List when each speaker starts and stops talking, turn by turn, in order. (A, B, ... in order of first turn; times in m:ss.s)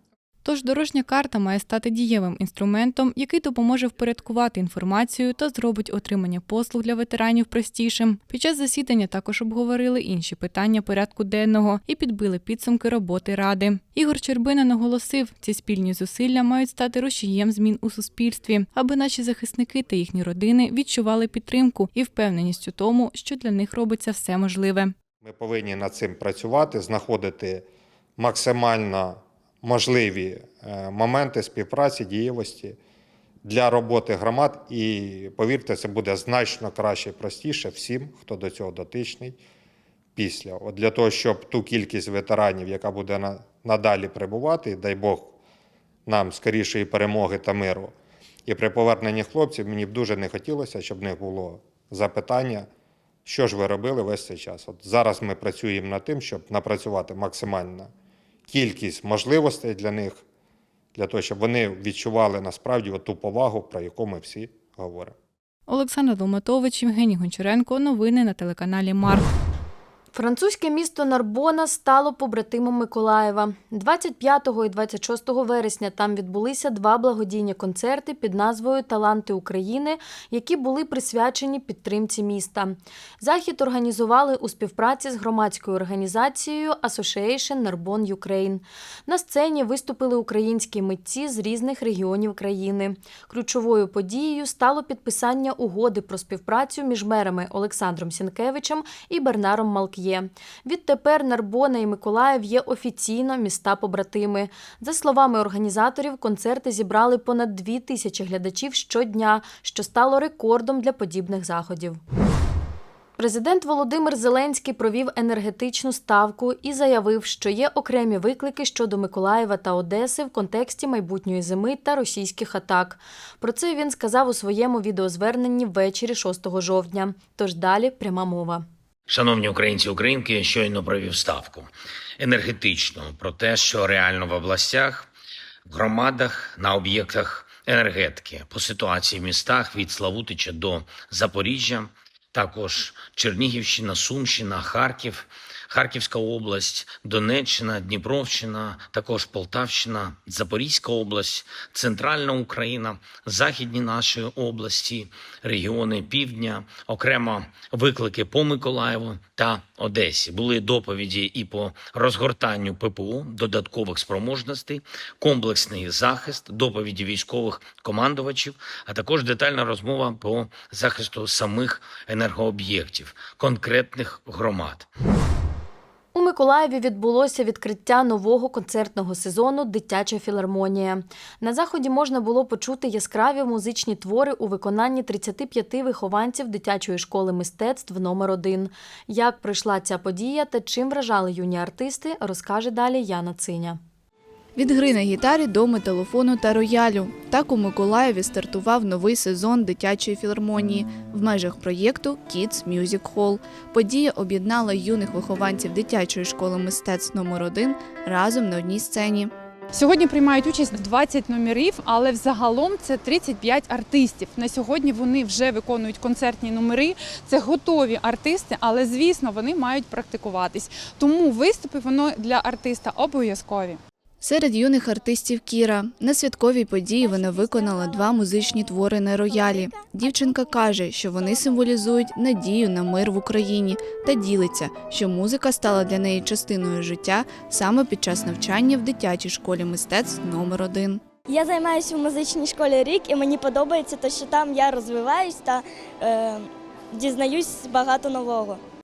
0:00.4-0:24.9 A
0:25.2-0:27.6 B
0:28.2-0:32.8 B
0:33.4-0:39.4 B
0:40.2-0:45.3 B
0:46.1-0:47.9 B
0:48.5-0:52.7 B
0:53.3-0:57.9 B
0:58.5-1:00.2 B
1:01.0-1:05.1 B
1:05.7-1:09.3 A
1:10.1-1:52.0 C
1:53.2-2:08.6 C
2:09.1-2:15.1 D
2:15.7-2:54.9 D
2:56.2-3:13.8 C
3:14.6-3:29.3 E
3:29.7-3:43.8 F
3:44.2-4:01.0 E
4:01.3-4:08.6 G